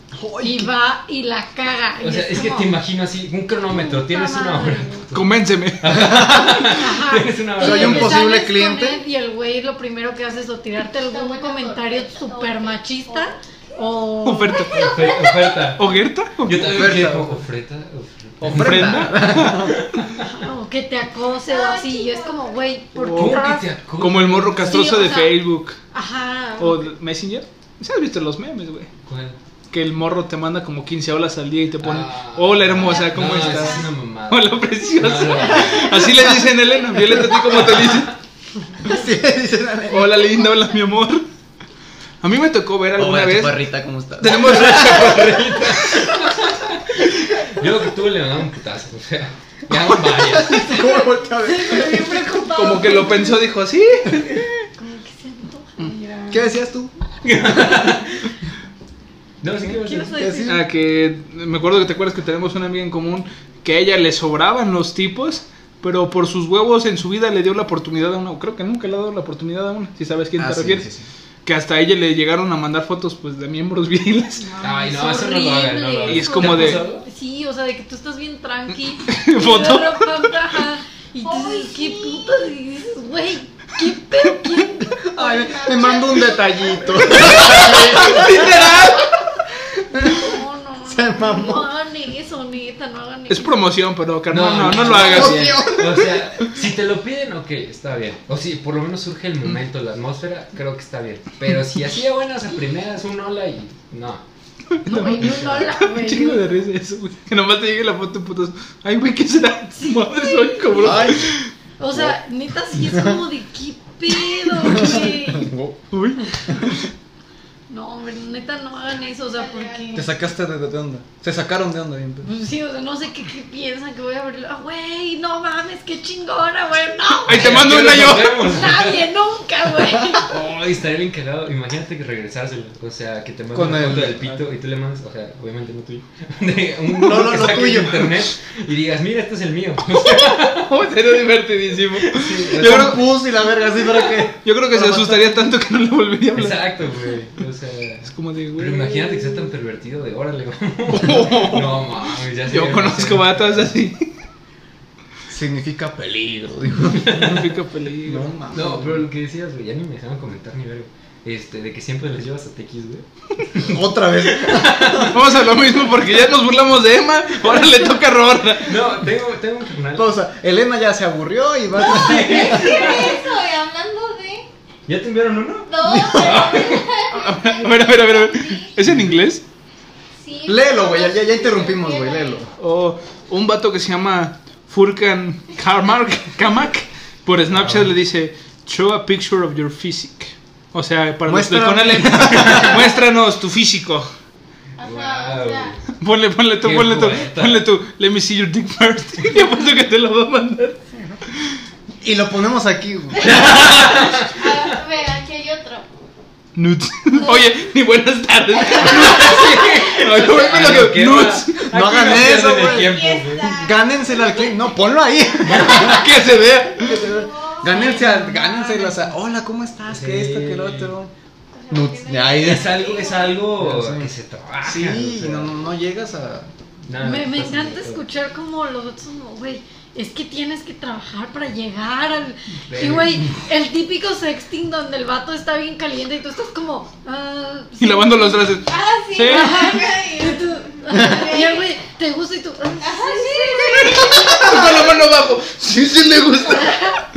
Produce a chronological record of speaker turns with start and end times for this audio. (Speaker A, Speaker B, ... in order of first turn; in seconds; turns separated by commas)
Speaker A: 0.1-0.7, Speaker B: 0.4-2.8, Speaker C: 2.0-8.2, Speaker B: 3.7-5.1, Speaker D: 5.1-6.1, Speaker A: 5.9-6.7, Speaker B: 6.5-14.7, Speaker A: 7.6-9.0, Speaker E: 11.0-13.9, Speaker D: 14.2-15.1, Speaker E: 14.5-15.8, Speaker C: 14.7-20.2, Speaker D: 15.8-16.9, Speaker A: 16.6-17.4, Speaker A: 18.4-19.8, Speaker D: 18.5-19.7, Speaker B: 20.2-23.7, Speaker E: 21.5-22.7, Speaker D: 22.9-25.8, Speaker C: 23.1-25.1, Speaker B: 24.6-26.9, Speaker D: 26.6-28.9, Speaker C: 29.1-29.4, Speaker D: 29.7-38.1, Speaker C: 31.8-36.3, Speaker E: 32.8-33.9, Speaker C: 37.5-38.1, Speaker A: 38.8-40.3, Speaker D: 39.9-41.3, Speaker D: 42.2-43.6, Speaker A: 43.0-45.2, Speaker D: 44.2-45.4, Speaker C: 44.4-50.9, Speaker A: 50.1-52.4, Speaker B: 50.9-53.5, Speaker D: 52.5-54.4, Speaker B: 54.8-56.5, Speaker A: 56.3-56.9, Speaker C: 57.2-58.3, Speaker C: 59.4-60.2, Speaker B: 59.6-60.6, Speaker A: 60.1-60.6, Speaker D: 60.5-70.9, Speaker A: 70.4-71.0, Speaker D: 71.5-74.6, Speaker B: 74.4-85.9, Speaker C: 74.6-77.1, Speaker D: 76.0-76.9, Speaker D: 79.1-80.3, Speaker E: 81.2-82.4, Speaker A: 84.9-88.8, Speaker E: 85.2-87.0, Speaker D: 87.2-89.2, Speaker A: 89.9-90.3, Speaker B: 89.9-93.7, Speaker A: 90.9-91.7, Speaker D: 93.3-95.8, Speaker C: 94.3-104.2, Speaker A: 94.7-96.2, Speaker D: 104.8-111.5, Speaker B: 104.9-106.7, Speaker C: 105.3-105.6, Speaker B: 109.8-111.2, Speaker A: 110.8-111.3, Speaker B: 111.8-115.5, Speaker A: 112.8-113.2, Speaker A: 114.6-115.8, Speaker D: 115.9-116.8, Speaker B: 117.7-120.1, Speaker E: 119.2-120.1, Speaker A: 119.9-122.3, Speaker B: 122.2-127.7, Speaker D: 127.3-128.5, Speaker C: 127.3-129.1, Speaker B: 128.3-130.3, Speaker C: 130.2-140.9, Speaker A: 133.5-134.3, Speaker A: 136.9-138.2, Speaker D: 140.0-143.0, Speaker C: 142.0-143.0, Speaker A: 142.6-145.4, Speaker D: 144.1-146.6, Speaker C: 146.3-153.7, Speaker D: 148.1-149.5, Speaker D: 150.9-151.9, Speaker D: 152.5-154.1, Speaker A: 155.3-157.5, Speaker C: 157.0-157.4, Speaker D: 157.2-158.3, Speaker A: 158.0-159.1, Speaker C: 158.5-165.2, Speaker A: 163.6-165.2, Speaker D: 165.1-168.8, Speaker C: 168.6-170.2, Speaker A: 169.9-173.1, Speaker C: 171.8-173.2, Speaker E: 171.8-174.5, Speaker C: 174.9-177.1, Speaker E: 175.7-178.7, Speaker A: 175.8-176.7, Speaker D: 177.1-179.4, Speaker E: 180.2-182.4, Speaker A: 180.4-182.5, Speaker D: 182.6-194.1, Speaker C: 187.5-187.9, Speaker A: 191.3-192.8, Speaker E: 194.8-195.8, Speaker C: 194.8-195.8, Speaker D: 195.9-200.8, Speaker C: 196.6-197.7, Speaker B: 200.9-201.2, Speaker A: 202.0-203.6, Speaker E: 203.1-205.9, Speaker C: 203.2-204.7, Speaker D: 206.6-211.7, Speaker C: 208.8-213.5, Speaker A: 211.7-221.1, Speaker E: 212.4-214.7, Speaker C: 215.5-215.9, Speaker D: 215.8-217.0, Speaker E: 216.8-218.0, Speaker B: 217.6-219.1, Speaker C: 219.9-220.9, Speaker E: 221.5-223.4, Speaker A: 221.7-222.8, Speaker C: 222.4-225.5, Speaker A: 223.6-224.1, Speaker A: 224.6-226.5, Speaker C: 226.9-228.0, Speaker B: 227.0-238.6, Speaker C: 232.7-233.3, Speaker D: 237.8-239.8, Speaker E: 238.7-241.7, Speaker B: 239.2-244.6, Speaker E: 242.8-244.9, Speaker D: 243.9-246.8, Speaker B: 246.6-247.0